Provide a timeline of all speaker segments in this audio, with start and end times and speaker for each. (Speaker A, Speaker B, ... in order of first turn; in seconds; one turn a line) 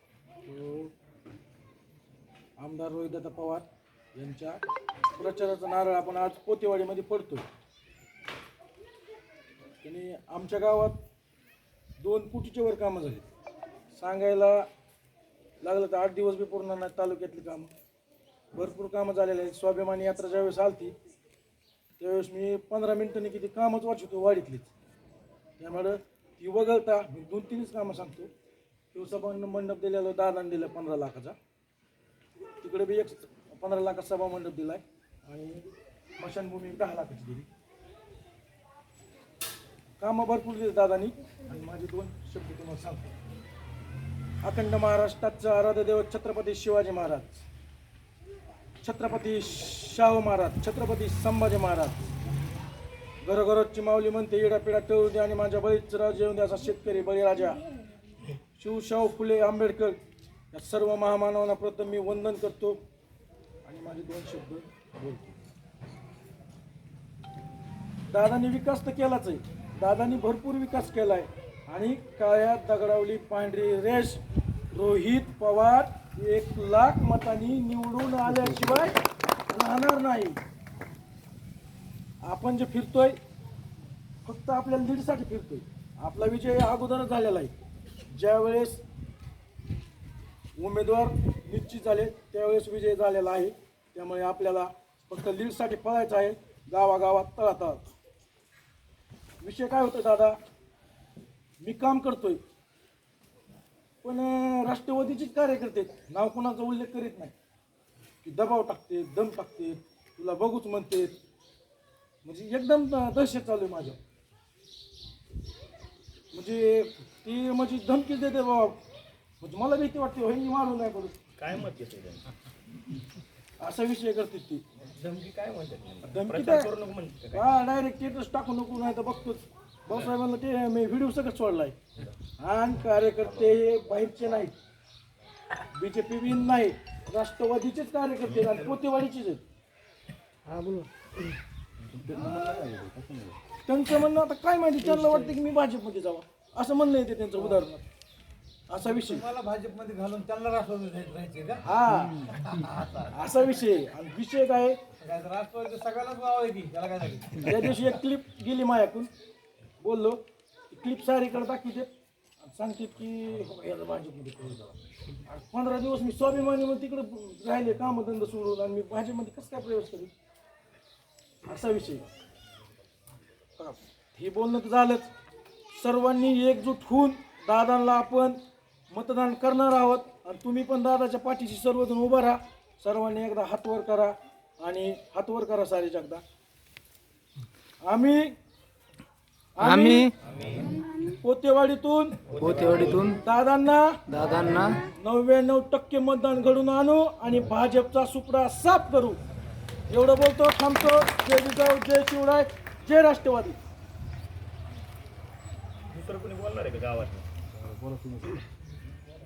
Speaker A: 0.5-0.9
Speaker A: 2.6-4.6
Speaker A: 5.2-7.5
Speaker A: 9.8-11.0
Speaker A: 12.0-13.3
Speaker A: 13.9-14.7
Speaker A: 15.6-17.7
Speaker A: 18.5-20.9
Speaker A: 22.0-24.7
Speaker A: 25.6-28.3
Speaker A: 28.9-31.4
Speaker A: 32.6-35.7
Speaker A: 36.2-37.5
Speaker A: 40.0-43.1
Speaker A: 44.4-47.5
Speaker A: 48.8-52.0
Speaker A: 53.2-57.7
Speaker A: 58.6-60.0
Speaker A: 60.5-62.8
Speaker A: 63.6-65.3
Speaker A: 68.1-74.2
Speaker A: 74.7-79.0
Speaker A: 79.5-80.4
Speaker A: 82.2-83.2
Speaker A: 84.2-87.5
Speaker A: 88.1-88.8
Speaker A: 90.6-97.8
Speaker A: 99.4-100.3
Speaker A: 101.6-102.4
Speaker A: 104.0-107.3
Speaker A: 108.2-111.2
Speaker A: 112.2-114.0
Speaker A: 116.3-118.8
Speaker A: 119.4-121.2
Speaker B: 121.4-122.3
Speaker A: 123.6-124.6
Speaker B: 124.8-127.5
Speaker A: 126.0-126.7
Speaker A: 127.3-131.8
Speaker A: 132.4-134.5
Speaker A: 135.7-139.4
Speaker C: 140.5-140.8
Speaker C: 142.0-143.3
Speaker A: 143.6-147.8
Speaker A: 148.7-149.3
Speaker C: 148.8-151.7
Speaker A: 151.6-152.4
Speaker C: 152.2-153.4
Speaker A: 153.1-154.8
Speaker C: 155.0-157.7
Speaker A: 157.4-159.1
Speaker A: 159.8-161.9
Speaker A: 162.4-170.1
Speaker A: 171.4-172.0
Speaker A: 173.6-175.1
Speaker A: 175.7-178.4
Speaker A: 178.9-186.2
Speaker A: 187.8-188.3
Speaker A: 189.6-190.1
Speaker D: 189.6-190.1
Speaker B: 190.2-190.8
Speaker A: 191.0-192.3
Speaker B: 192.2-193.2
Speaker D: 192.4-193.2
Speaker A: 193.1-194.0
Speaker D: 194.1-194.8
Speaker A: 194.9-199.2
Speaker A: 199.9-203.6
Speaker B: 205.9-207.3
Speaker D: 207.8-208.4